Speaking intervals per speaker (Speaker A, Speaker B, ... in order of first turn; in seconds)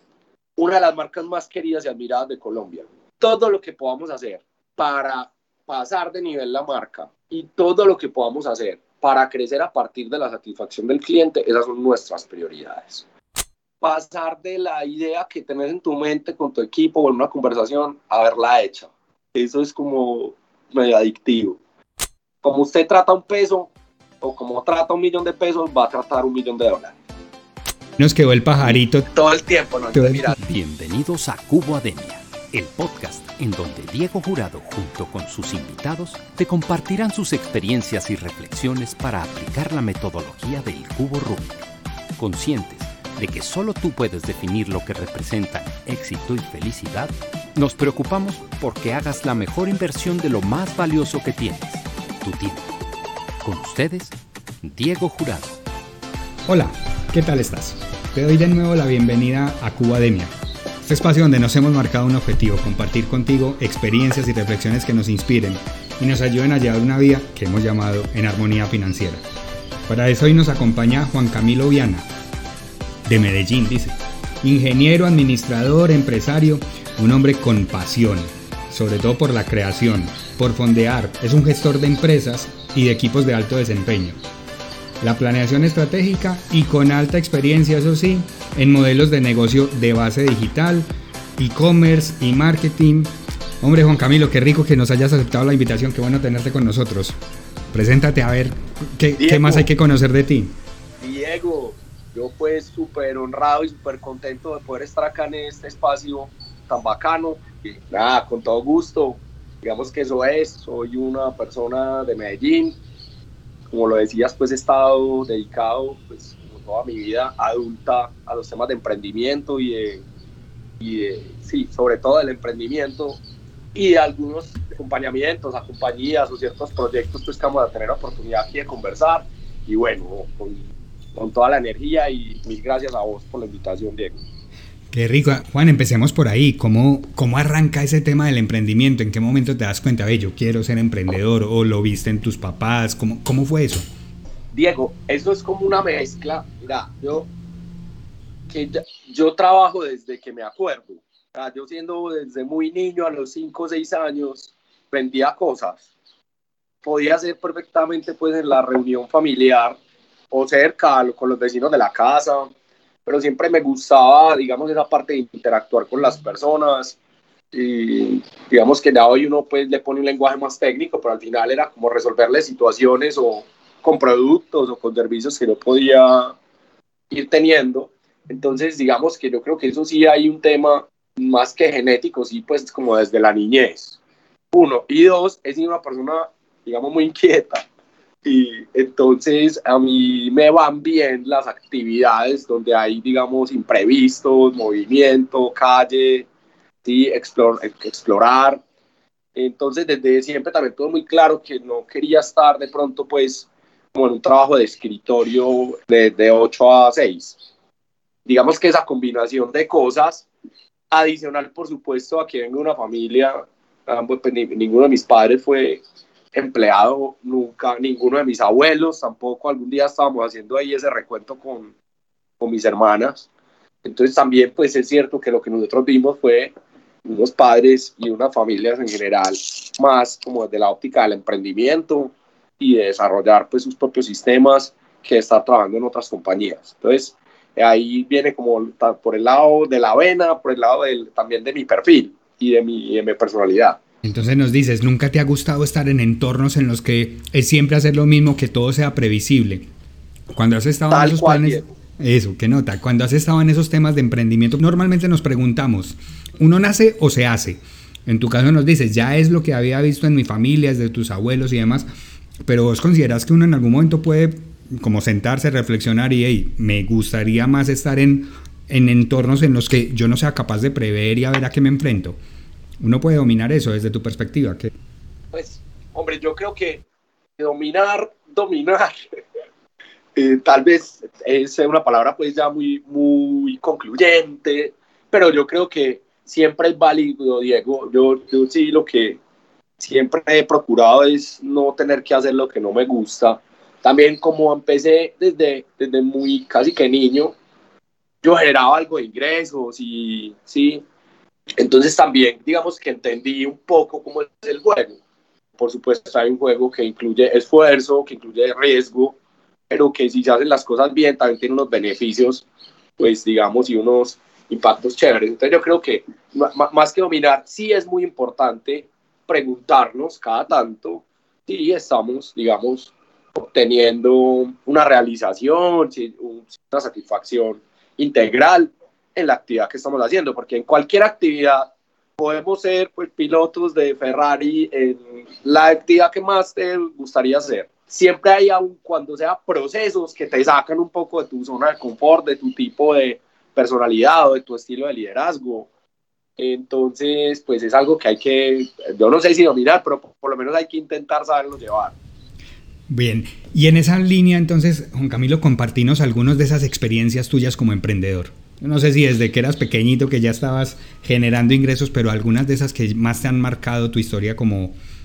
Speaker A: 0.6-13.1, 13.8-21.6, 22.4-27.0, 28.7-30.4, 99.2-99.7, 101.0-112.8, 113.7-120.0, 120.8-123.2, 123.7-134.2, 144.5-147.3, 148.5-155.9, 156.8-159.8, 160.3-162.5, 163.1-167.0, 167.5-176.3, 177.1-184.0, 184.5-187.7, 188.2-196.3, 196.8-198.6, 199.3-207.4, 208.3-210.3, 210.9-215.8, 216.3-221.7, 222.4-223.3, 223.8-226.5, 227.0-243.8, 250.9-251.7, 275.3-276.9, 277.4-279.2, 280.2-289.2, 289.8-297.3, 298.2-300.8, 301.6-305.0, 305.6-309.2, 309.7-312.4, 313.0-345.7, 346.4-352.0
Speaker B: 28.0-29.1, 29.9-30.3, 56.5-60.3, 60.8-69.2, 69.9-72.1, 73.1-84.2, 85.0-90.9, 91.4-97.2, 97.7-100.5, 134.9-143.8, 244.0-249.7, 250.3-261.9, 262.4-272.2, 272.8-274.7, 352.9-364.8
Speaker C: 30.4-41.6, 42.2-52.7, 53.4-55.6